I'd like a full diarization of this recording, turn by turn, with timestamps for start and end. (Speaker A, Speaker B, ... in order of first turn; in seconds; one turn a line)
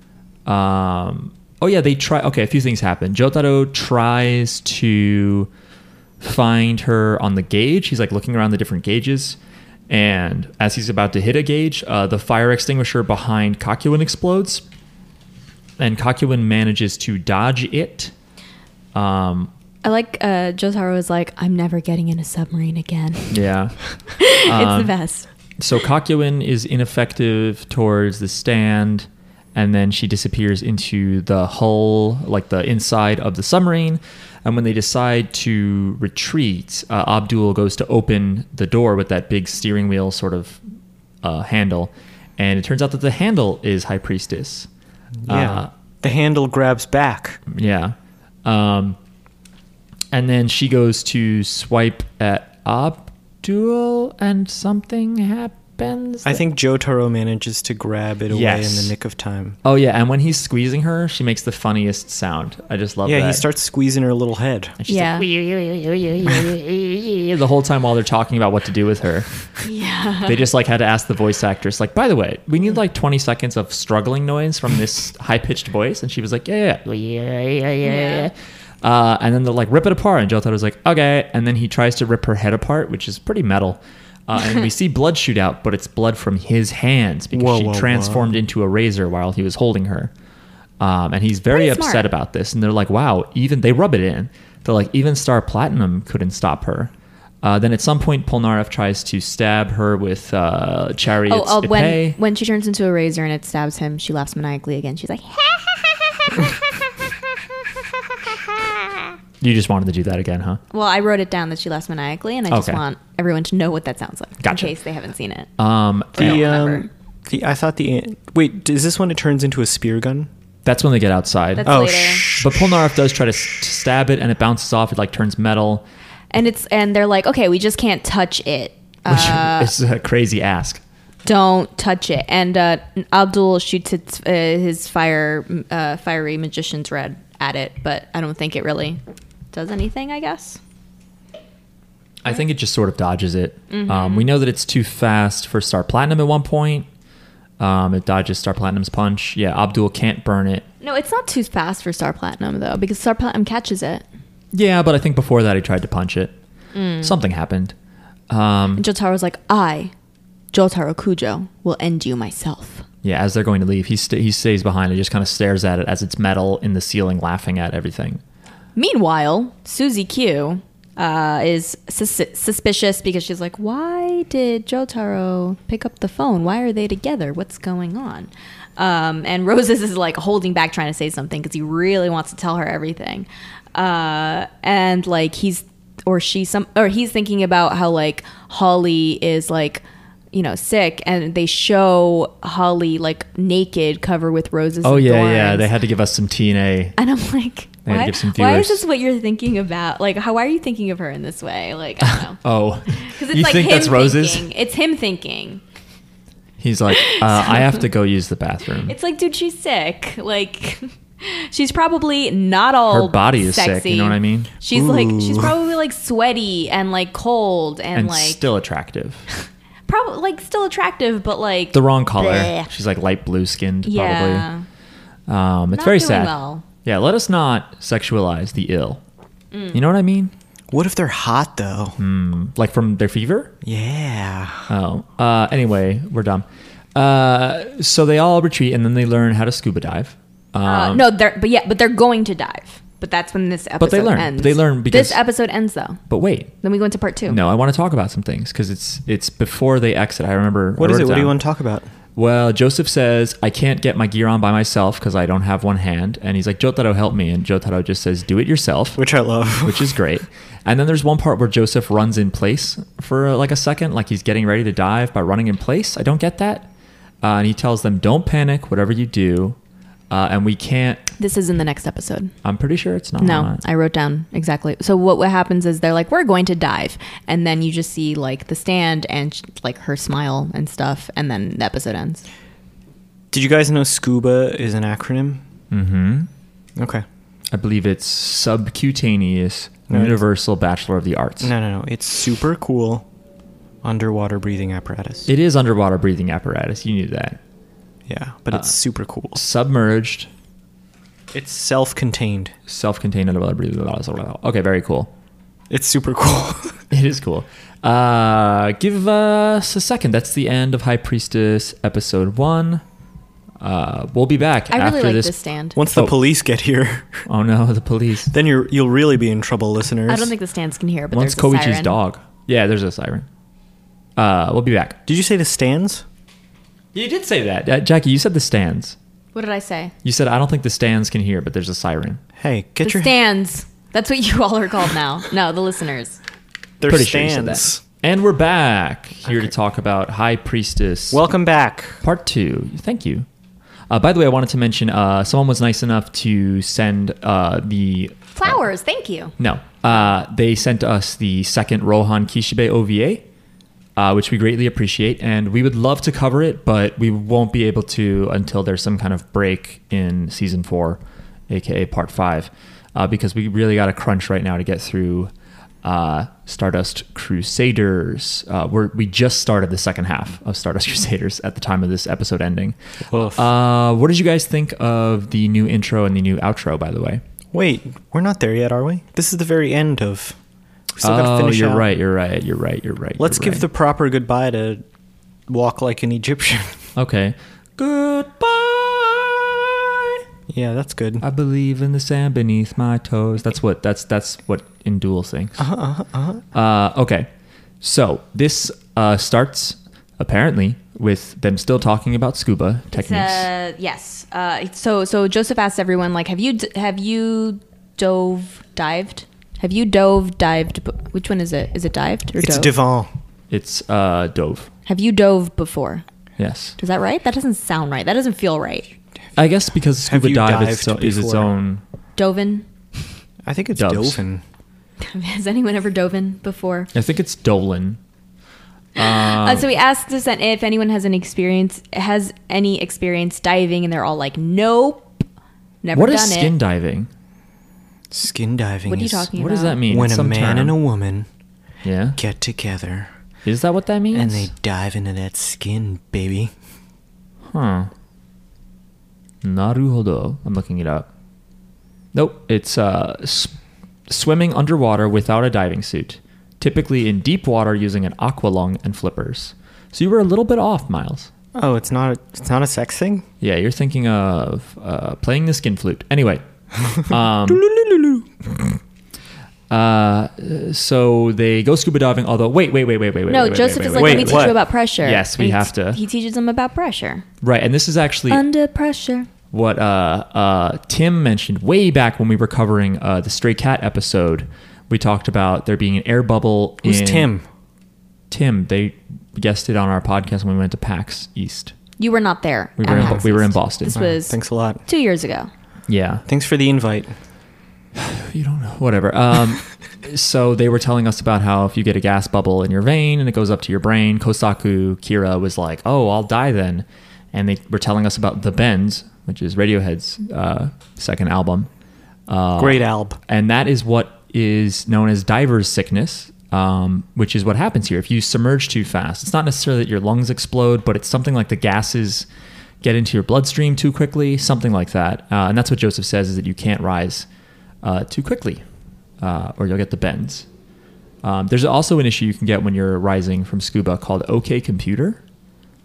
Speaker A: 0.5-5.5
Speaker A: 6.2-9.4
Speaker A: 9.9-14.6
Speaker A: 15.8-18.1
Speaker A: 18.9-19.5
Speaker B: 19.8-23.4
Speaker A: 23.3-24.9
Speaker B: 24.1-25.3
Speaker A: 25.6-40.6
Speaker A: 41.2-44.7
Speaker C: 45.2-47.4
Speaker A: 45.3-45.7
Speaker A: 47.5-49.0
Speaker A: 50.1-56.4
Speaker C: 56.2-59.6
Speaker A: 58.3-58.9
Speaker A: 59.6-63.5
Speaker C: 63.0-64.8
Speaker A: 64.8-69.3
Speaker B: 64.9-65.3
Speaker B: 69.6-70.4
Speaker A: 70.2-90.1
Speaker B: 77.8-78.3
Speaker C: 87.3-88.3
Speaker A: 90.8-102.2
Speaker B: 91.5-92.1
Speaker B: 101.3-106.5
Speaker A: 109.4-110.6
Speaker B: 110.7-115.5
Speaker A: 112.5-112.8
Speaker A: 114.4-114.7
Speaker A: 115.6-116.5
Speaker B: 116.2-116.9
Speaker C: 116.2-120.3
Speaker A: 120.7-121.7
Speaker B: 121.6-122.2
Speaker C: 121.7-122.7
Speaker A: 122.3-125.9
Speaker B: 126.3-129.7
Speaker A: 129.1-130.8
Speaker B: 131.2-139.0
Speaker B: 139.5-140.6
Speaker A: 142.2-146.9
Speaker B: 143.7-144.3
Speaker A: 147.6-150.7
Speaker B: 150.8-154.1
Speaker A: 154.5-156.4
Speaker B: 156.7-157.2
Speaker A: 157.0-157.8
Speaker A: 158.3-158.8
Speaker B: 158.8-159.9
Speaker B: 160.5-162.8
Speaker A: 163.0-168.2
Speaker B: 168.8-195.7
Speaker A: 194.8-197.0
Speaker B: 197.0-202.4
Speaker A: 197.9-198.8
Speaker A: 202.0-204.5
Speaker B: 203.0-205.6
Speaker A: 206.6-208.9
Speaker B: 206.9-207.6
Speaker B: 208.9-218.4
Speaker A: 212.9-214.5
Speaker C: 214.7-215.6
Speaker A: 217.9-219.3
Speaker B: 219.9-222.7
Speaker A: 221.7-224.5
Speaker B: 223.8-224.7
Speaker A: 225.3-229.0
Speaker B: 225.7-226.7
Speaker B: 229.5-229.8
Speaker A: 229.7-230.3
Speaker C: 230.7-232.0
Speaker A: 232.0-233.5
Speaker C: 233.6-234.7
Speaker A: 234.7-241.1
Speaker B: 240.6-246.0
Speaker A: 243.8-245.2
Speaker A: 246.1-246.5
Speaker B: 246.6-247.4
Speaker A: 247.3-251.4
Speaker C: 250.8-251.9
Speaker A: 252.2-259.0
Speaker C: 259.0-260.0
Speaker A: 259.6-266.7
Speaker A: 267.2-269.6
Speaker A: 270.1-271.1
Speaker B: 271.2-272.3
Speaker A: 272.4-273.6
Speaker B: 273.2-282.2
Speaker C: 283.3-285.4
Speaker A: 285.7-286.3
Speaker C: 286.8-287.0
Speaker A: 287.5-291.5
Speaker C: 289.9-290.2
Speaker C: 291.4-293.1
Speaker C: 293.8-295.3
Speaker A: 295.3-297.4
Speaker C: 298.1-299.4
Speaker A: 299.4-300.3
Speaker C: 301.3-302.5
Speaker A: 302.7-305.1
Speaker C: 305.7-306.8
Speaker A: 306.9-312.8
Speaker A: 313.6-315.3
Speaker B: 314.7-315.8
Speaker C: 315.8-317.3
Speaker A: 317.3-318.3
Speaker C: 318.3-320.3
Speaker B: 320.1-322.0
Speaker A: 321.1-323.3
Speaker A: 324.2-325.0
Speaker C: 325.1-326.0
Speaker A: 326.9-329.0
Speaker B: 329.3-329.9
Speaker A: 330.0-332.2
Speaker C: 332.4-333.1
Speaker B: 332.8-336.2
Speaker C: 336.8-337.8
Speaker A: 336.9-341.2
Speaker C: 341.1-342.0
Speaker A: 342.0-343.3
Speaker A: 343.9-348.6
Speaker B: 348.4-349.3
Speaker A: 349.4-353.2
Speaker A: 354.0-365.3
Speaker A: 365.8-377.2
Speaker C: 373.1-373.4
Speaker C: 377.5-380.4
Speaker C: 380.9-381.9
Speaker A: 381.0-383.7
Speaker C: 383.2-384.8
Speaker C: 385.5-386.8
Speaker A: 387.0-390.2
Speaker C: 390.5-391.2
Speaker A: 391.2-395.6
Speaker C: 395.6-396.4
Speaker A: 396.5-397.3
Speaker A: 397.8-403.5
Speaker B: 402.9-412.8
Speaker C: 412.4-413.1
Speaker A: 413.5-414.7
Speaker B: 414.9-416.0
Speaker A: 416.4-416.8
Speaker B: 416.8-418.9
Speaker A: 419.4-421.8
Speaker C: 420.1-421.5
Speaker B: 422.2-422.7
Speaker C: 423.4-424.4
Speaker A: 423.8-424.2
Speaker B: 425.0-426.9
Speaker A: 426.9-428.0
Speaker A: 429.0-429.7
Speaker B: 429.0-435.2
Speaker B: 435.8-436.5
Speaker A: 435.9-437.1
Speaker C: 438.1-439.3
Speaker B: 438.9-439.8
Speaker A: 439.3-440.8
Speaker C: 439.9-441.3
Speaker A: 441.8-442.2
Speaker C: 442.2-443.1
Speaker A: 443.4-444.5
Speaker C: 444.1-446.5
Speaker A: 447.5-447.9
Speaker A: 449.4-451.1
Speaker A: 452.1-453.6
Speaker A: 454.1-461.3
Speaker C: 461.6-463.2
Speaker A: 463.4-466.4
Speaker A: 467.0-467.6
Speaker C: 467.5-468.3
Speaker A: 469.7-476.0
Speaker B: 473.3-477.2
Speaker C: 473.9-474.6
Speaker A: 477.4-478.5
Speaker B: 478.3-479.3
Speaker A: 479.5-487.3
Speaker C: 486.8-487.4
Speaker A: 488.3-491.7
Speaker B: 492.0-495.5
Speaker A: 492.8-494.0
Speaker C: 492.9-493.2
Speaker C: 493.9-494.8
Speaker A: 495.9-496.2
Speaker C: 496.3-497.1
Speaker A: 497.9-511.7
Speaker A: 512.3-522.3
Speaker C: 512.6-513.2
Speaker A: 522.8-527.3
Speaker A: 527.8-528.6
Speaker A: 529.2-530.5
Speaker A: 531.2-535.2